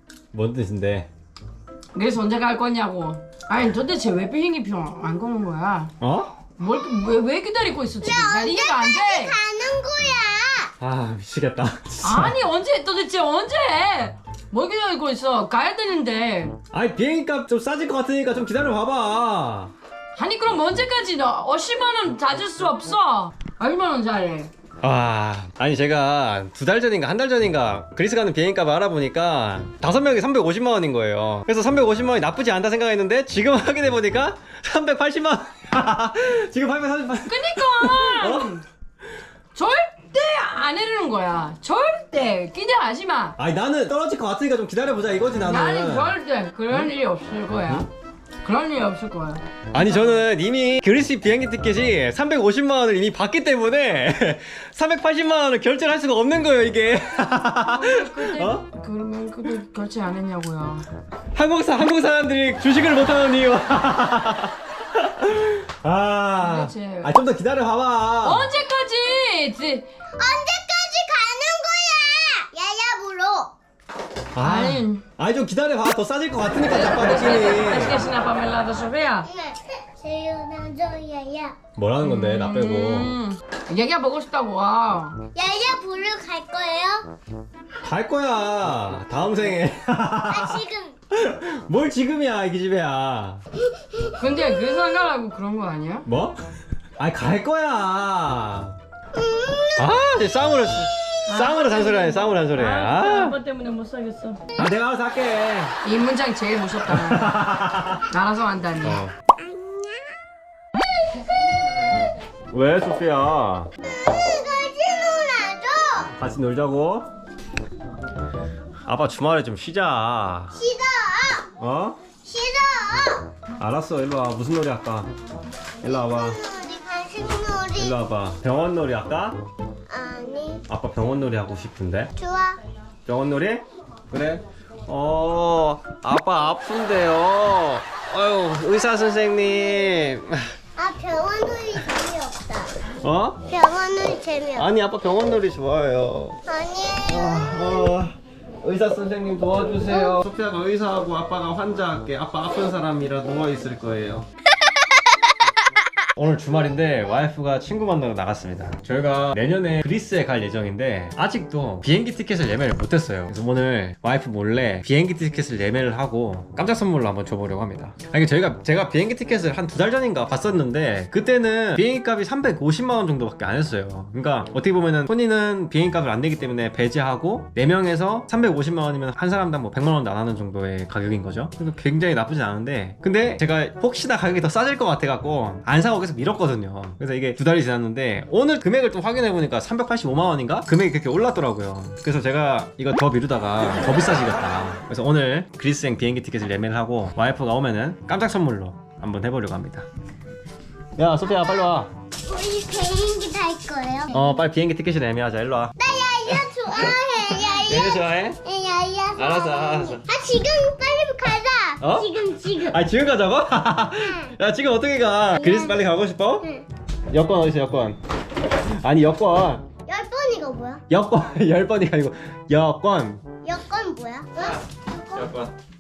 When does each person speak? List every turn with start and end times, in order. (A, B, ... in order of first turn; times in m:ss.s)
0:00.3-0:01.1 A
0:01.9-0:05.9 B
0:06.0-0:06.3 A
0:06.6-0:09.3 B
0:08.0-0:10.7 C
0:10.8-0:12.4 A
0:12.0-0:16.6 B
0:16.7-0:19.7 A
0:20.2-0:24.5 B
0:24.8-0:38.6 A
0:37.2-0:38.6 B
0:39.5-0:43.3 B
0:43.4-0:46.1 A
0:45.4-0:47.9 B
0:48.4-0:49.4 B
0:49.7-0:58.6 A
0:57.6-1:00.8 B
1:01.3-1:08.5 A
1:06.4-1:07.1 B
1:08.2-1:09.8 B
1:10.2-1:13.5 C
1:14.3-1:18.0 A
1:14.4-1:15.0 B
1:16.5-1:19.3 B
1:19.2-1:21.6 C
1:21.8-1:23.1 A
1:22.0-1:25.2 B
1:25.3-1:27.1 C
1:27.8-1:30.6 A
1:30.3-1:30.9 C
1:31.1-1:33.4 A
1:33.8-1:34.7 C
1:34.2-1:36.0 B
1:36.0-1:36.4 A
1:37.0-1:38.7 A
1:39.1-1:40.0 C
1:39.8-1:43.4 A
1:41.3-1:44.4 B
1:44.6-1:45.7 A
1:45.8-1:47.4 B
1:46.8-1:48.0 A
1:48.1-1:49.0 B
1:48.8-1:49.1 A
1:49.4-1:50.0 C
1:52.5-1:53.7 A
1:54.0-1:56.1 C
1:56.2-1:57.1 A
1:58.8-2:00.6 A
2:00.5-2:01.5 C
2:01.6-2:02.0 A
2:02.2-2:03.3 C
2:03.6-2:05.1 A
2:05.8-2:06.4 A
2:05.8-2:08.0 C
2:07.8-2:09.4 A
2:09.9-2:10.6 C
2:10.7-2:12.1 A
2:12.2-2:12.6 C
2:13.1-2:20.4 A
2:20.8-2:22.7 C
2:23.0-2:23.4 A
2:23.5-2:24.7 C
2:24.6-2:26.4 A
2:26.4-2:27.9 C
2:27.1-2:34.3 A
2:36.2-3:19.8 A
3:21.0-3:21.9 A
3:22.2-3:24.3 C
3:24.1-3:25.7 A
3:25.8-3:32.8 C
3:26.7-3:28.4 A
3:29.2-3:30.0 A
3:31.8-3:32.1 A
3:32.7-3:36.4 A
3:34.0-3:34.3 C
3:35.3-3:35.8 C
3:37.1-3:38.0 A
3:38.8-3:39.6 A
3:39.8-3:40.8 C
3:40.9-3:43.2 A
3:43.4-3:45.3 C
3:45.2-3:45.5 A